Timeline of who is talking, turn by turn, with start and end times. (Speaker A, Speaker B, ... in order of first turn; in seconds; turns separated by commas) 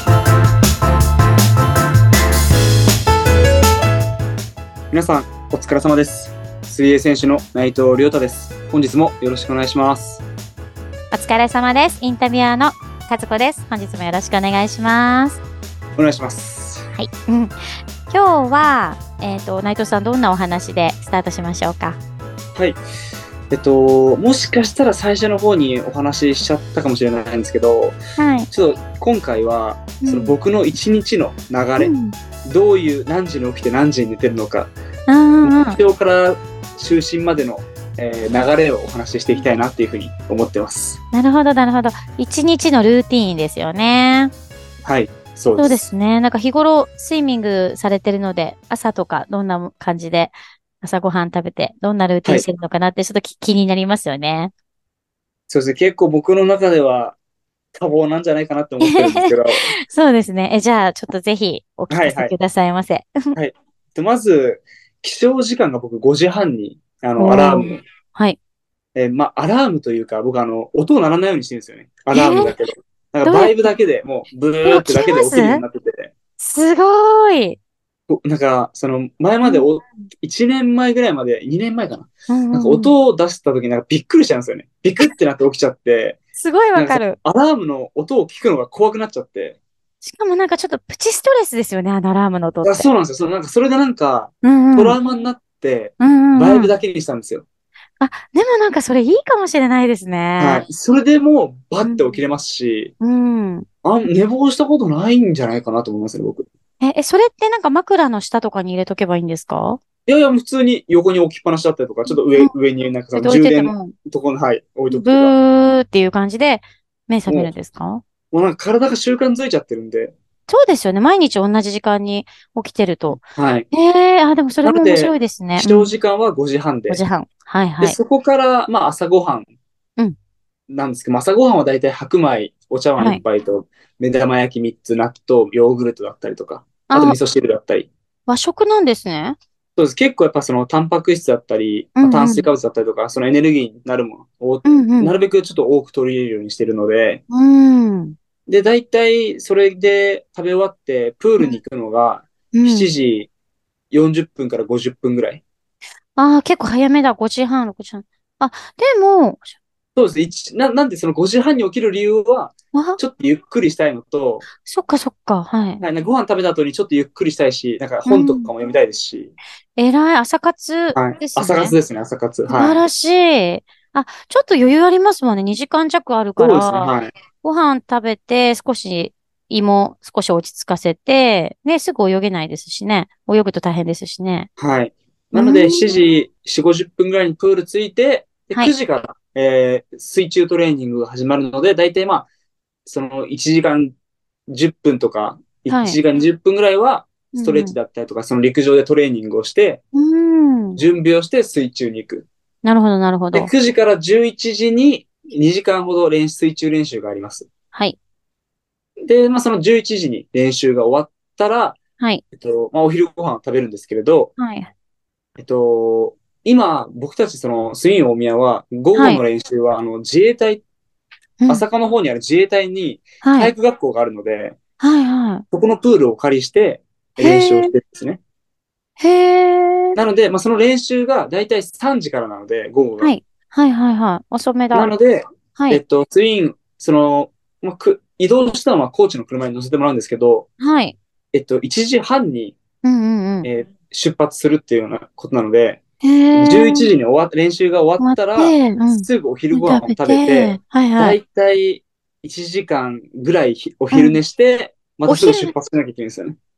Speaker A: 4.9-10.2, Speaker B: 11.1-15.4, Speaker A: 16.0-16.9, Speaker B: 16.9-17.5, Speaker B: 18.1-22.0, Speaker A: 23.5-28.0, Speaker B: 28.2-28.5, Speaker A: 28.5-31.9, Speaker B: 30.0-30.3, Speaker B: 31.8-32.2, Speaker A: 32.5-34.7, Speaker B: 35.1-35.8, Speaker A: 35.4-41.0, Speaker B: 41.1-44.3, Speaker A: 44.9-45.9, Speaker B: 45.6-54.5, Speaker A: 55.5-57.2, Speaker A: 57.8-59.7, Speaker B: 58.8-63.3, Speaker A: 61.9-62.4, Speaker A: 63.4-67.8, Speaker B: 67.2-68.4, Speaker A: 69.0-76.1, Speaker B: 72.1-72.5, Speaker B: 73.2-73.7, Speaker B: 74.7-75.6, Speaker B: 76.4-77.6, Speaker A: 78.1-86.2, Speaker B: 82.3-82.9, Speaker B: 86.4-87.2, Speaker A: 86.8-89.6, Speaker B: 90.0-92.9, Speaker A: 92.6-97.5, Speaker B: 94.4-95.0, Speaker B: 96.0-96.7, Speaker B: 98.0-100.7, Speaker A: 100.4-102.9, Speaker B: 101.8-102.2, Speaker B: 103.0-103.7, Speaker A: 103.8-106.5, Speaker B: 106.8-109.8, Speaker A: 110.1-115.3, Speaker B: 112.1-112.5, Speaker B: 113.2-113.9, Speaker B: 114.9-118.0, Speaker A: 117.3-117.5, Speaker A: 118.3-120.2, Speaker B: 120.5-123.2, Speaker A: 123.1-123.7, Speaker B: 123.7-125.9, Speaker A: 124.6-127.0, Speaker B: 126.9-128.0, Speaker A: 127.8-129.5, Speaker A: 130.7-137.9, Speaker B: 136.9-137.2, Speaker B: 138.3-139.4, Speaker A: 139.8-147.2, Speaker B: 142.0-142.5, Speaker B: 144.7-145.1, Speaker B: 147.3-148.2, Speaker A: 148.5-153.3, Speaker B: 152.5-152.9, Speaker A: 153.9-155.4, Speaker B: 156.2-159.6, Speaker A: 160.0-164.5, Speaker B: 162.7-163.0, Speaker B: 164.6-165.8, Speaker A: 165.8-169.3, Speaker B: 168.1-168.5, Speaker B: 169.8-171.8, Speaker A: 170.9-172.8, Speaker B: 172.5-184.5, Speaker A: 176.4-177.1, Speaker A: 184.6-192.3, Speaker B: 185.3-186.0, Speaker A: 192.9-193.9, Speaker A: 194.5-199.8, Speaker B: 195.7-196.0, Speaker B: 197.3-197.8, Speaker B: 199.9-200.8, Speaker A: 200.8-202.3, Speaker B: 202.6-203.5, Speaker A: 203.3-207.5, Speaker A: 209.0-211.8, Speaker A: 212.3-214.3, Speaker B: 214.4-214.7, Speaker A: 215.4-220.6, Speaker B: 218.9-219.2, Speaker B: 221.4-221.7, Speaker A: 221.5-224.6, Speaker B: 223.2-223.5, Speaker B: 224.8-225.4, Speaker A: 225.5-228.2, Speaker B: 227.2-227.7, Speaker B: 229.0-230.0, Speaker A: 230.0-233.1, Speaker B: 233.0-234.9, Speaker A: 234.7-240.5, Speaker B: 235.6-235.8, Speaker B: 240.6-241.0, Speaker A: 241.3-242.6, Speaker B: 242.8-243.5, Speaker A: 243.4-245.8, Speaker B: 246.0-246.9, Speaker A: 246.3-256.4, Speaker B: 248.0-251.2, Speaker B: 253.9-254.2, Speaker B: 255.1-255.5